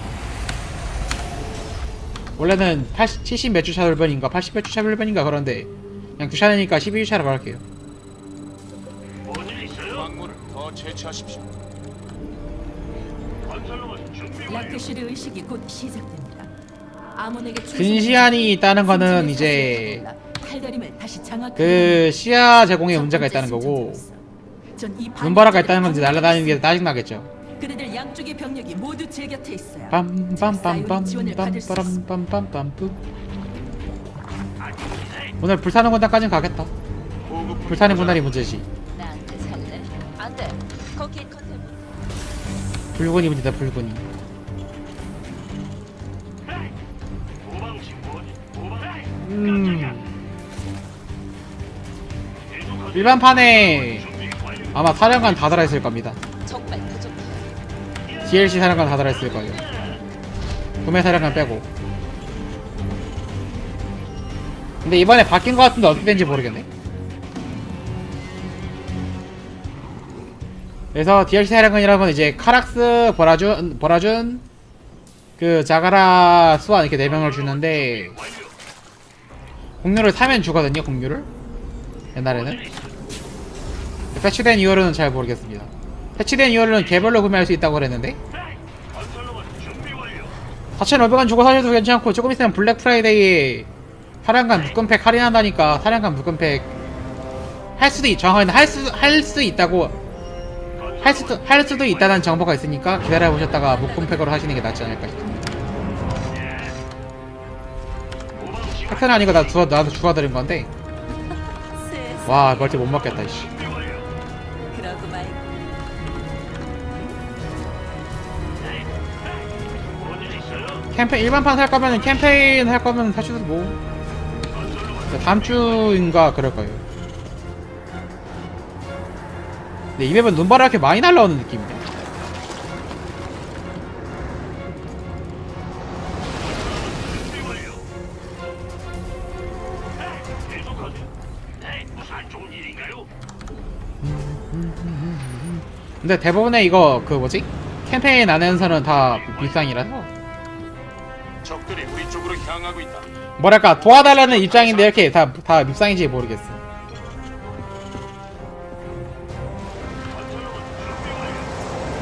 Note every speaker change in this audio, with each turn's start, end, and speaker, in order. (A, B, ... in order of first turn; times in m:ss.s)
0:02.4-0:07.6 A
0:09.3-0:09.8 B
0:09.9-0:11.4 C
0:13.6-0:14.5 B
0:14.4-0:16.5 D
0:17.1-0:22.1 D
0:17.7-0:20.0 A
0:21.6-0:24.0 A
0:22.9-0:24.2 D
0:24.8-0:26.7 D
0:25.2-0:27.3 A
0:27.6-0:32.0 D
0:29.9-0:33.0 A
0:35.4-0:36.7 A
0:37.3-0:38.3 C
0:37.6-0:38.7 A
0:38.9-0:41.9 E
0:43.0-0:44.1 A
0:47.5-0:49.0 B
0:49.2-0:50.1 A
0:52.9-0:54.1 A
0:54.7-0:56.2 A
0:56.4-0:57.5 E
0:58.2-0:59.6 A
1:00.8-1:01.7 A
1:04.8-1:06.7 A
1:10.9-1:14.4 A
1:15.4-1:18.2 A
1:19.8-1:21.3 A
1:22.2-1:22.7 A
1:24.1-1:28.2 A
1:29.0-1:30.3 B
1:30.8-1:33.7 A
1:34.2-1:36.7 A
1:37.8-1:39.9 A
1:41.0-1:45.2 A
1:43.6-1:44.4 E
1:46.4-1:46.7 B
1:48.4-1:48.8 B
1:48.8-1:50.7 A
1:51.7-1:52.8 E
1:52.2-1:53.5 A
1:53.6-1:54.0 B
1:54.7-1:55.5 E
2:00.0-2:00.8 B
2:00.9-2:03.8 A
2:04.7-2:04.9 B
2:05.1-2:06.8 A
2:10.0-2:11.9 A
2:17.4-2:17.7 B
2:20.5-2:21.0 B
2:21.9-2:23.1 B
2:24.0-2:30.1 A
2:31.4-2:33.1 C
2:33.4-2:36.6 A
2:34.1-2:34.8 C
2:40.2-2:41.5 B